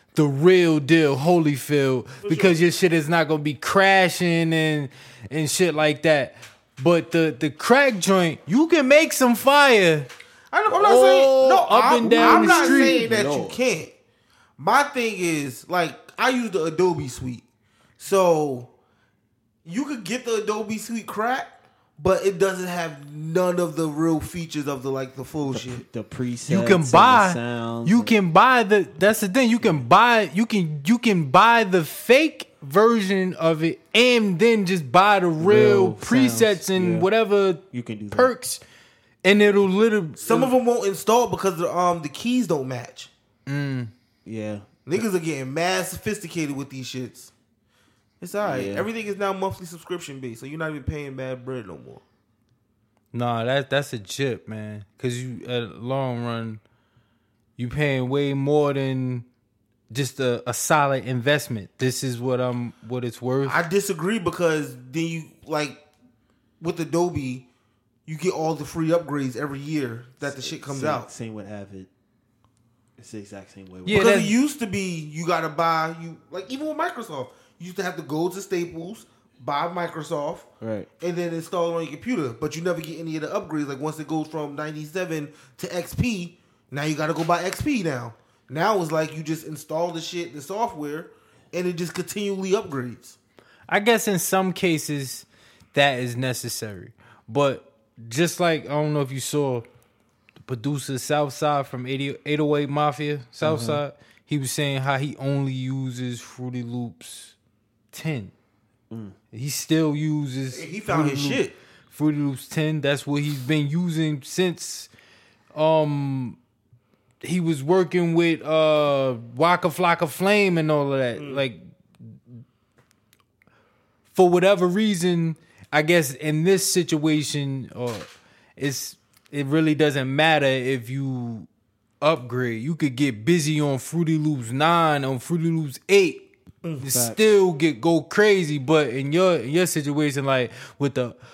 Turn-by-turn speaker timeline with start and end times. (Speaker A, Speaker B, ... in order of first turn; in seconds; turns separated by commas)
Speaker A: 0.1-10.1, Speaker B: 2.2-2.6, Speaker B: 10.5-13.9, Speaker A: 10.7-13.1, Speaker C: 12.1-13.6, Speaker B: 14.6-17.4, Speaker B: 18.0-18.7, Speaker B: 19.6-25.8, Speaker C: 25.5-28.1, Speaker A: 26.5-38.6, Speaker C: 35.4-37.1, Speaker C: 37.7-38.3, Speaker A: 39.2-40.5, Speaker B: 40.2-43.1, Speaker A: 43.5-43.9, Speaker C: 44.2-44.8, Speaker B: 44.9-47.3, Speaker B: 48.2-52.0, Speaker C: 48.4-48.9, Speaker A: 53.1-56.6, Speaker A: 57.6-59.3, Speaker A: 59.9-63.6, Speaker B: 63.4-65.8, Speaker B: 66.6-67.5, Speaker B: 68.1-71.1, Speaker C: 70.2-71.9, Speaker C: 73.0-74.1, Speaker A: 73.8-74.4, Speaker B: 73.9-80.5, Speaker C: 80.6-80.9, Speaker B: 81.0-93.2, Speaker A: 93.7-99.7, Speaker A: 100.4-107.3, Speaker C: 103.4-103.8, Speaker A: 107.9-108.3, Speaker C: 108.9-109.2, Speaker A: 109.3-114.9, Speaker B: 110.5-111.5, Speaker A: 115.5-116.4, Speaker A: 117.2-122.2, Speaker B: 121.2-121.5, Speaker A: 124.1-131.5, Speaker A: 132.0-136.3, Speaker A: 136.8-141.2, Speaker C: 136.9-137.2